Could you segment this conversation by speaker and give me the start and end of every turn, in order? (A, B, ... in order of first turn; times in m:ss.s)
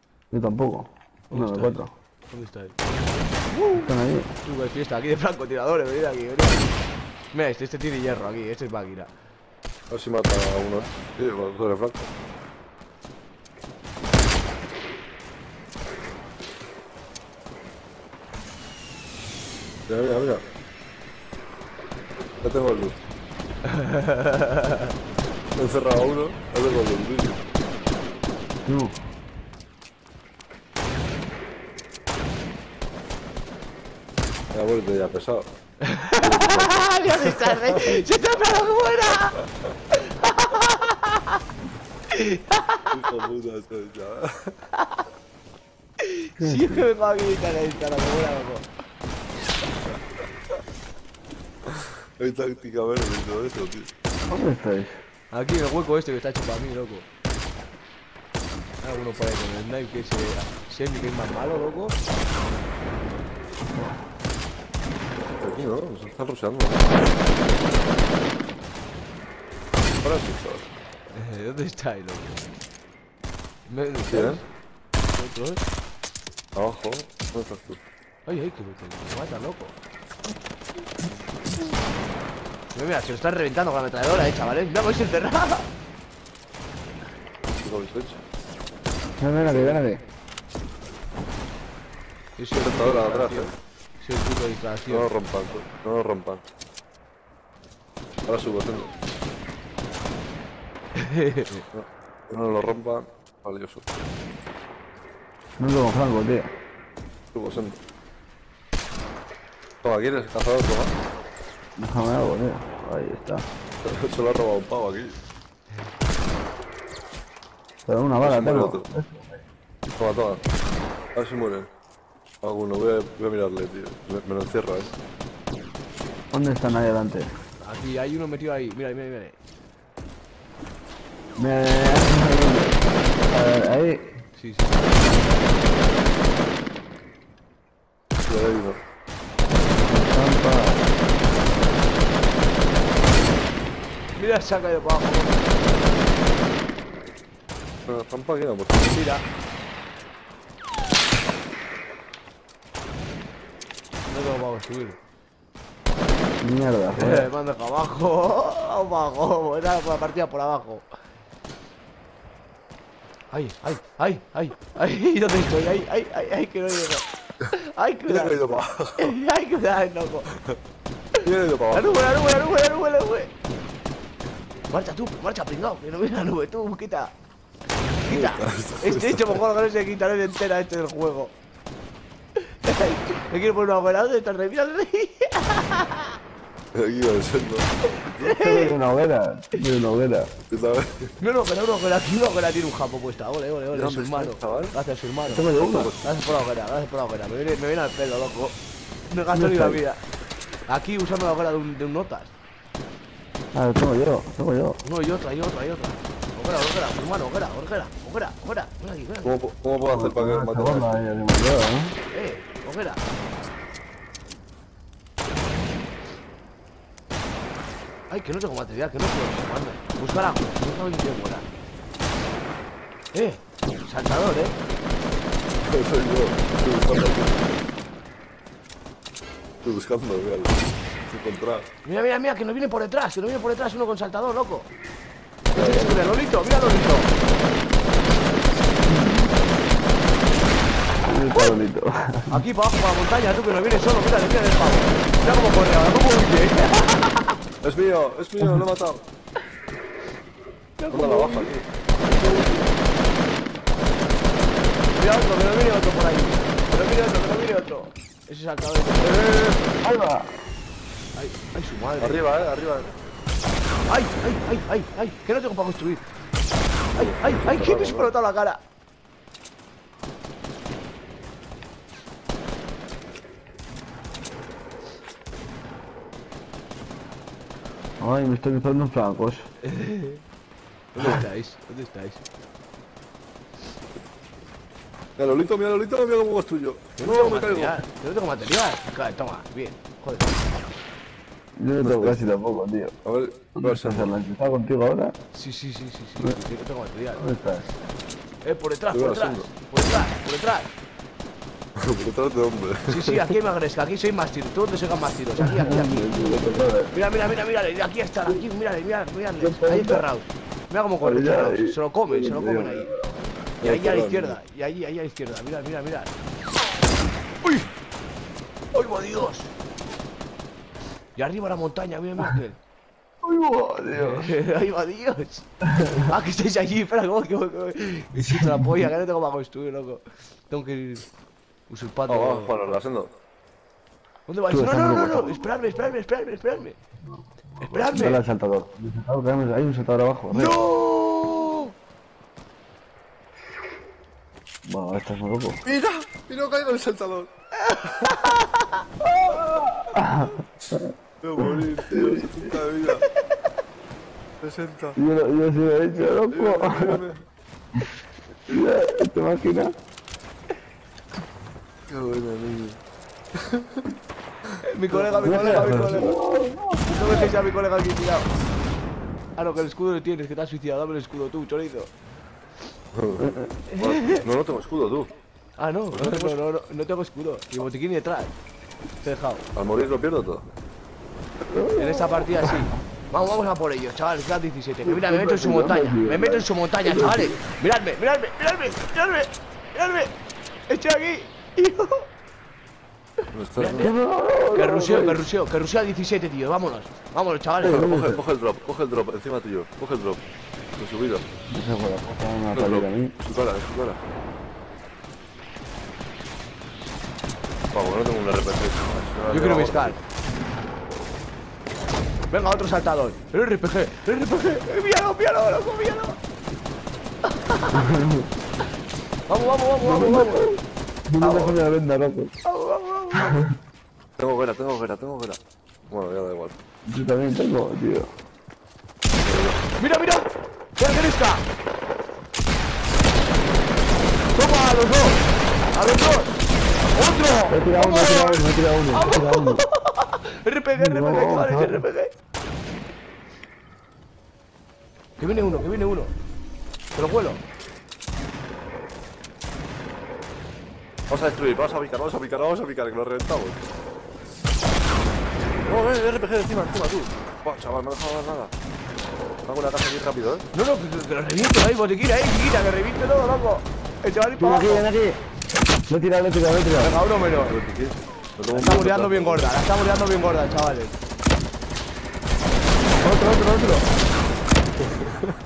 0:00.3-0:01.9 A
0:01.3-0:02.8 B
0:03.5-0:03.9 B
0:03.7-0:04.3 A
0:04.4-0:06.8 B
0:07.3-0:09.1 B
0:09.9-0:12.0 C
0:19.9-0:20.4 C
0:22.4-0:23.0 C
0:23.6-0:24.9 B
0:25.6-0:27.4 C
0:28.6-0:28.9 A
0:34.5-0:35.4 C
0:35.8-0:41.4 B
0:36.1-0:38.0 C
0:42.1-0:42.9 B
0:42.9-0:44.5 C
0:44.8-0:45.0 B
0:46.0-0:48.7 B
0:46.4-0:46.9 A
0:51.7-0:53.9 C
0:54.2-0:55.0 A
0:55.3-0:57.1 B
0:58.8-1:02.0 B
1:03.7-1:04.0 A
1:05.3-1:07.0 C
1:10.0-1:10.7 C
1:11.1-1:12.4 B
1:13.7-1:14.4 B
1:14.1-1:14.4 C
1:15.1-1:15.6 B
1:16.6-1:17.8 C
1:18.2-1:19.8 B
1:22.7-1:25.7 B
1:27.6-1:28.2 C
1:29.2-1:30.0 A
1:29.4-1:29.8 C
1:32.4-1:35.1 B
1:32.5-1:33.5 C
1:34.9-1:36.4 C
1:38.2-1:38.9 C
1:41.0-1:41.7 B
1:41.7-1:43.8 C
1:45.6-1:46.5 A
1:47.3-1:47.8 C
1:49.8-1:50.9 C
1:51.8-1:53.4 A
1:53.8-1:55.2 C
1:57.8-1:59.4 A
1:58.2-1:58.8 C
2:00.0-2:00.4 C
2:01.2-2:01.7 C
2:02.4-2:04.9 C
2:06.3-2:07.3 A
2:07.6-2:09.4 B
2:11.4-2:14.2 A
2:14.3-2:15.0 B
2:18.3-2:18.8 C
2:19.8-2:20.9 A
2:24.2-2:25.6 B
2:27.9-2:29.0 C
2:28.8-2:29.2 B
2:34.1-2:35.0 B
2:36.4-2:37.3 A
2:36.9-2:40.8 B
2:43.3-2:50.3 B
2:48.1-2:49.1 C
2:51.2-2:53.3 B
2:51.2-2:52.2 C
2:54.7-2:57.1 B
2:58.0-3:01.3 B
2:58.1-2:59.4 C
3:02.4-3:06.2 B
3:06.7-3:08.3 C
3:08.2-3:08.7 B
3:08.2-3:10.3 A
3:10.5-3:10.9 C
3:11.2-3:15.5 B
3:13.7-3:14.7 C
3:15.2-3:15.9 A
3:15.5-3:16.1 C
3:16.0-3:18.6 B
3:19.1-3:20.0 B
3:19.3-3:19.8 A
3:20.7-3:22.3 B
3:23.5-3:24.8 A
3:24.8-3:29.3 B
3:29.2-3:31.1 C
3:29.9-3:32.0 A
3:32.1-3:33.0 B
3:38.1-3:41.5 B
3:43.1-3:44.6 B
3:45.6-3:47.5 C
3:49.6-3:51.7 C
3:51.8-3:54.7 B
3:55.5-3:56.0 C
3:55.5-3:57.1 B
3:58.9-3:59.3 A
4:01.1-4:02.4 A
4:02.3-4:07.4 B
4:07.6-4:09.0 C
4:10.8-4:11.5 B
4:10.9-4:11.6 C
4:12.1-4:12.7 B
4:14.9-4:19.3 B
4:19.0-4:19.7 C
4:19.8-4:20.4 A
4:21.1-4:22.2 B
4:22.0-4:22.9 C
4:23.9-4:26.0 B
4:26.9-4:28.1 C
4:26.9-4:28.6 B
4:38.0-4:39.5 A
4:39.7-4:40.2 B
4:40.9-4:42.2 B
4:45.2-4:47.8 C
4:47.0-4:50.4 B
4:51.6-4:52.9 A
4:51.8-4:52.4 C
4:53.0-4:54.1 C
4:53.6-4:55.2 A
4:55.3-4:57.2 B
4:57.1-4:57.8 A
4:58.4-5:00.7 B
4:58.9-4:59.5 C
5:01.8-5:03.3 C
5:02.9-5:12.9 B
5:05.4-5:06.9 A
5:09.4-5:10.1 A
5:11.0-5:13.3 A
5:13.6-5:14.4 C
5:13.6-5:16.1 B
5:17.4-5:17.7 B
5:18.7-5:19.5 B
5:21.2-5:22.6 B
5:23.2-5:24.4 A
5:23.9-5:31.1 B
5:25.7-5:26.1 A
5:28.2-5:28.9 A
5:31.7-5:32.8 B
5:32.1-5:33.1 C
5:34.3-5:36.8 B
5:34.5-5:35.5 A
5:37.0-5:40.6 A
5:37.6-5:38.2 B
5:40.3-5:41.7 B
5:44.6-5:45.6 A
5:45.6-5:47.3 C
5:47.6-5:48.8 B
5:47.8-5:48.3 C
5:49.0-5:50.8 A
5:50.6-5:53.1 C
5:51.4-5:52.5 A
5:54.4-5:55.0 C
5:55.0-5:57.0 A
5:56.3-5:57.2 C
5:58.5-5:59.7 A
6:01.9-6:02.8 C
6:03.4-6:03.8 C
6:04.6-6:06.2 B
6:04.9-6:07.3 A
6:05.2-6:05.8 C
6:06.9-6:08.3 B
6:09.4-6:11.9 B
6:12.9-6:15.1 C
6:13.2-6:13.6 A
6:13.7-6:14.2 B
6:15.6-6:18.3 B
6:15.9-6:16.4 C
6:19.0-6:19.4 B
6:19.6-6:20.4 C
6:21.5-6:22.6 A
6:21.7-6:30.1 B
6:24.8-6:27.4 A
6:30.7-6:32.1 B
6:33.3-6:33.9 C
6:33.6-6:33.9 B
6:33.8-6:35.2 A
6:34.5-6:37.9 B
6:37.6-6:38.2 A
6:37.6-6:40.2 C
6:40.8-6:41.2 C
6:41.5-6:43.1 A
6:42.5-6:44.0 C
6:47.7-6:50.0 C
6:49.3-6:50.0 B
6:52.3-6:56.2 B
6:57.3-6:57.8 B
6:57.7-6:58.3 A
6:59.3-7:00.6 B
6:59.8-7:02.3 A
7:01.2-7:01.6 B
7:02.4-7:03.4 B
7:04.2-7:06.6 C
7:06.9-7:08.1 A
7:09.2-7:09.6 C
7:09.8-7:11.4 B
7:14.3-7:16.4 B
7:16.9-7:22.1 B
7:17.5-7:19.6 A
7:20.7-7:21.9 A
7:25.2-7:26.1 B
7:26.9-7:27.4 B
7:31.1-7:33.6 C
7:35.6-7:38.5 C
7:39.4-7:40.4 C
7:40.5-7:44.9 B
7:44.4-7:45.2 A
7:45.9-7:47.0 A
7:46.8-7:47.6 B
7:47.4-7:49.5 C
7:48.5-7:51.0 B
7:53.0-7:53.8 A
7:54.8-7:55.3 C